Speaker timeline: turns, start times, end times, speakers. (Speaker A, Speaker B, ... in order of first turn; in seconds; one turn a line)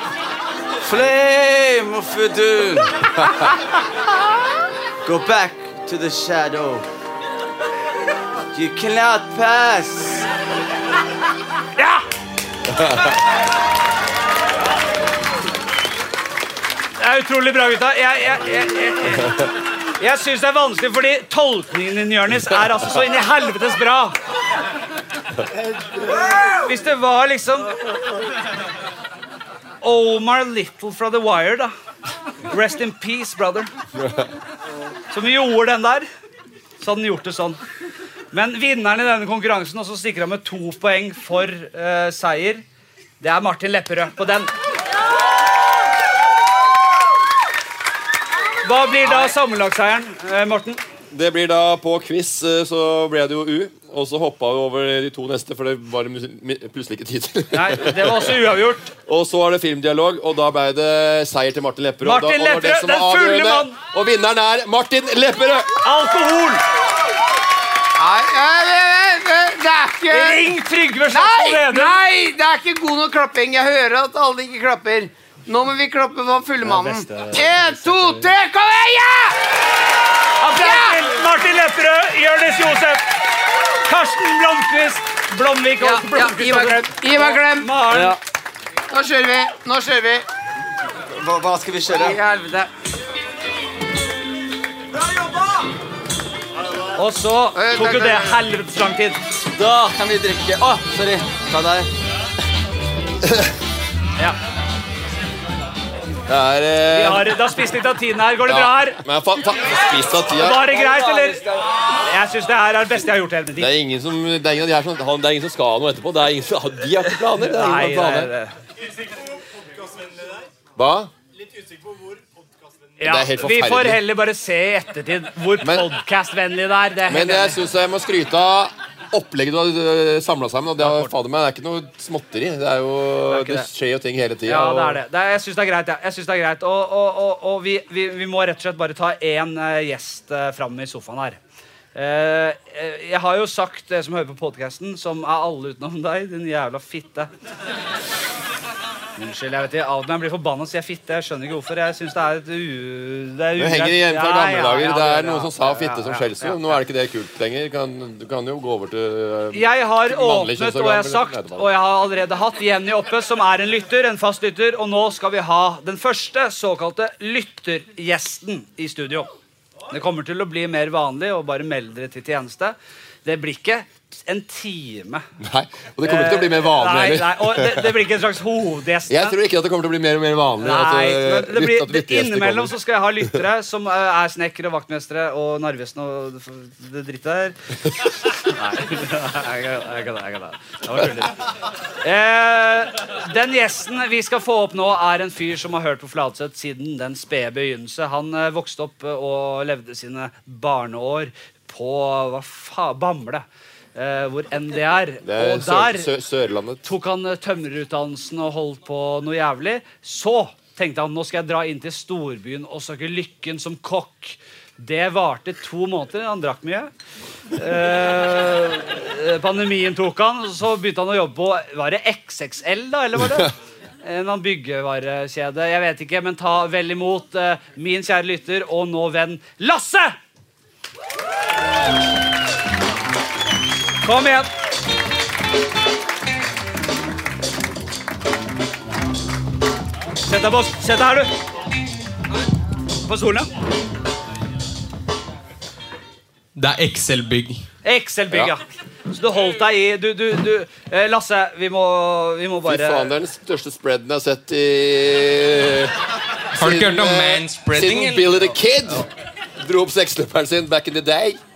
Speaker A: 0.8-2.9
Speaker A: 5.0-6.9
Speaker A: 8.5-10.3
Speaker B: 11.8-12.0
Speaker B: 17.0-24.2
Speaker B: 26.4-27.7
Speaker B: 29.8-31.7
Speaker B: 32.5-33.7
Speaker B: 35.1-36.1
Speaker B: 36.8-37.6
Speaker B: 38.3-42.6
Speaker B: 43.2-44.5
Speaker B: 48.6-50.8
Speaker C: 51.1-58.4
Speaker B: 57.5-58.9
Speaker C: 59.1-65.7
Speaker B: 62.0-63.8
Speaker B: 65.8-66.6
Speaker D: 68.0-70.5
Speaker B: 70.1-72.0
Speaker D: 71.1-79.4
Speaker B: 76.7-78.2
Speaker B: 80.4-83.1
Speaker D: 80.5-81.1
Speaker B: 83.8-88.2
Speaker D: 85.8-88.0
Speaker A: 87.9-88.2
Speaker D: 88.9-90.2
Speaker A: 91.1-92.2
Speaker D: 91.9-92.7
Speaker B: 97.0-99.2
Speaker D: 97.5-98.4
Speaker A: 99.5-101.9
Speaker C: 103.2-103.5
Speaker C: 106.3-107.4
Speaker B: 106.9-109.0
Speaker C: 108.5-110.7
Speaker B: 110.3-111.5
Speaker D: 110.7-111.4
Speaker B: 112.0-113.7
Speaker C: 113.6-118.3
Speaker B: 117.4-118.5
Speaker C: 120.8-121.1
Speaker B: 123.0-127.6
Speaker C: 123.0-124.0
Speaker C: 125.6-125.9
Speaker C: 127.1-135.0
Speaker B: 130.8-131.1
Speaker B: 133.3-133.7
Speaker B: 134.5-141.4
Speaker B: 141.9-147.3
Speaker B: 149.2-156.6
Speaker C: 153.6-161.7
Speaker B: 159.5-169.3
Speaker B: 169.9-175.2
Speaker C: 175.4-177.9
Speaker B: 176.0-179.4
Speaker C: 179.1-182.8
Speaker B: 180.6-187.6
Speaker B: 188.4-191.3
Speaker B: 192.0-206.1
Speaker C: 205.2-206.9
Speaker B: 206.8-216.9
Speaker B: 217.6-230.2
Speaker B: 234.0-234.5
Speaker B: 240.2-241.3
Speaker B: 243.0-243.5
Speaker E: 246.6-247.7
Speaker B: 247.8-253.1
Speaker C: 252.7-255.9
Speaker C: 256.5-259.1
Speaker E: 256.6-258.5
Speaker C: 259.6-261.4